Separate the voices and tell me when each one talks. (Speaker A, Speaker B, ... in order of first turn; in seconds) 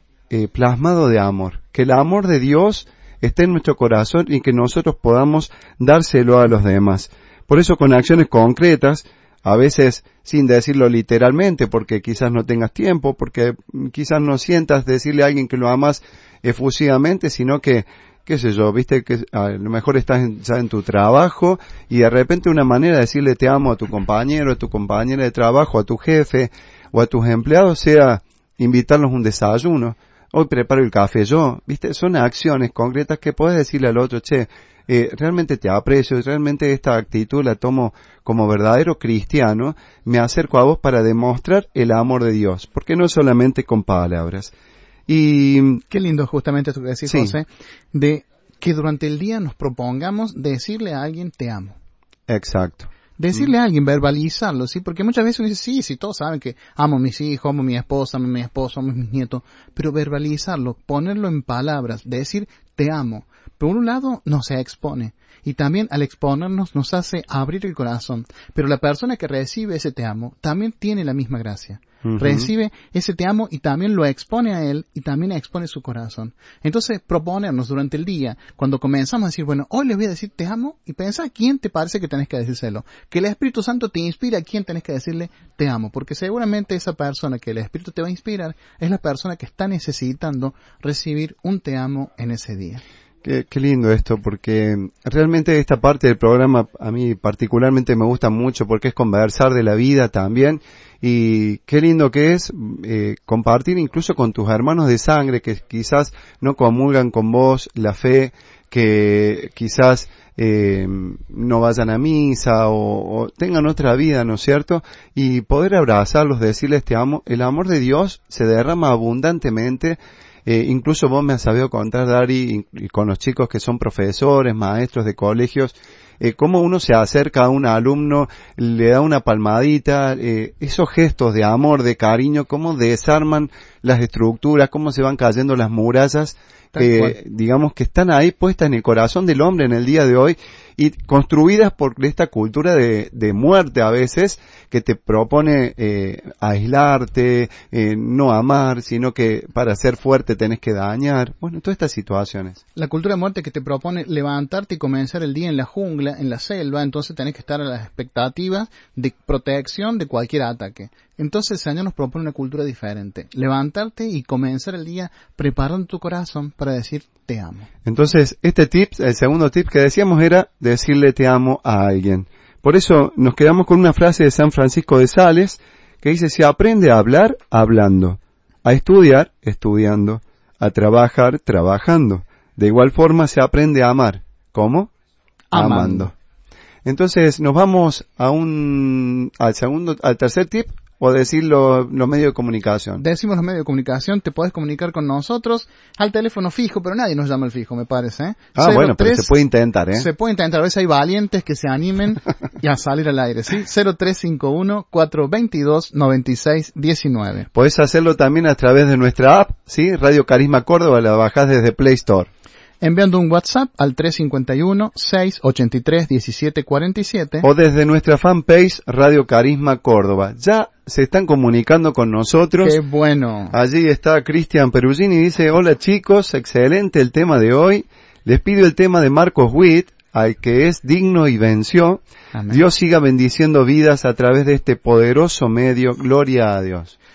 Speaker A: 0.3-44.5, 45.1-45.8, 47.1-47.3, 52.3-53.4, 72.0-72.5, 93.2-152.6, 167.8-184.9, 185.5-186.1, 186.8-193.0, 198.6-200.1, 207.5-212.3, 217.4-222.8, 223.5-236.9
Speaker B: 45.9-51.8, 53.2-92.8, 136.7-137.2, 152.7-167.7, 185.5-186.1, 193.0-199.3, 199.9-207.5, 212.8-217.5, 222.6-223.5, 232.3-232.6